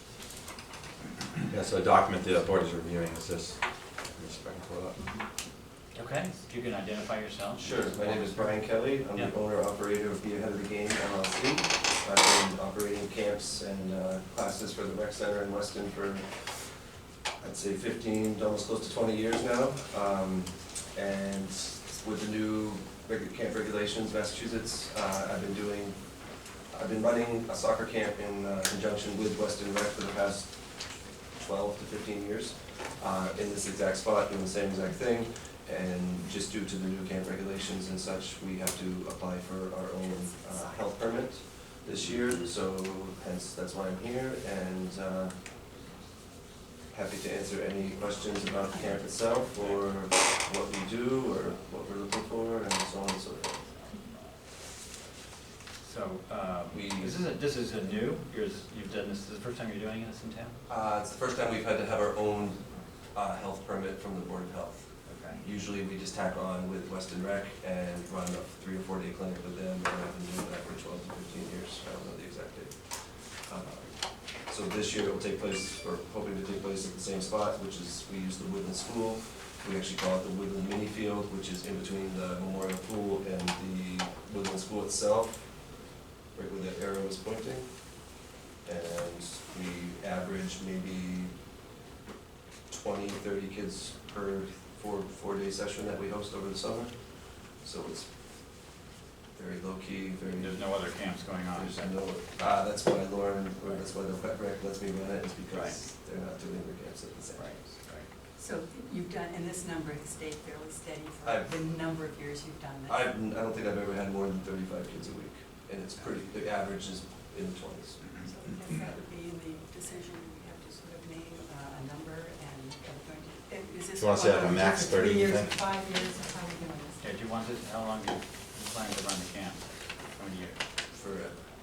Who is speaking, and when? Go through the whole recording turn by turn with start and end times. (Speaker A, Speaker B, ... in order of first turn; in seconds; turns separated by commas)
Speaker A: 1.5-3.6, Speaker A: 4.1-5.0, Speaker B: 5.9-9.3, Speaker C: 7.5-16.2, Speaker C: 17.4-26.0, Speaker C: 26.7-30.6, Speaker C: 31.4-45.3, Speaker D: 40.0-40.9, Speaker C: 46.9-53.7, Speaker B: 55.8-60.5, Speaker C: 56.7-57.2, Speaker C: 60.7-72.7, Speaker B: 65.0-65.4, Speaker C: 73.5-85.4, Speaker C: 86.3-87.7, Speaker C: 88.6-91.3, Speaker C: 92.7-96.9, Speaker C: 97.5-98.1, Speaker C: 99.3-100.9, Speaker B: 100.3-101.9, Speaker C: 101.5-107.5, Speaker B: 107.3-108.1, Speaker D: 108.4-113.1, Speaker C: 111.2-111.5, Speaker C: 112.9-118.0, Speaker D: 118.2-127.1, Speaker A: 124.0-125.6, Speaker B: 127.0-130.6, Speaker C: 130.9-131.4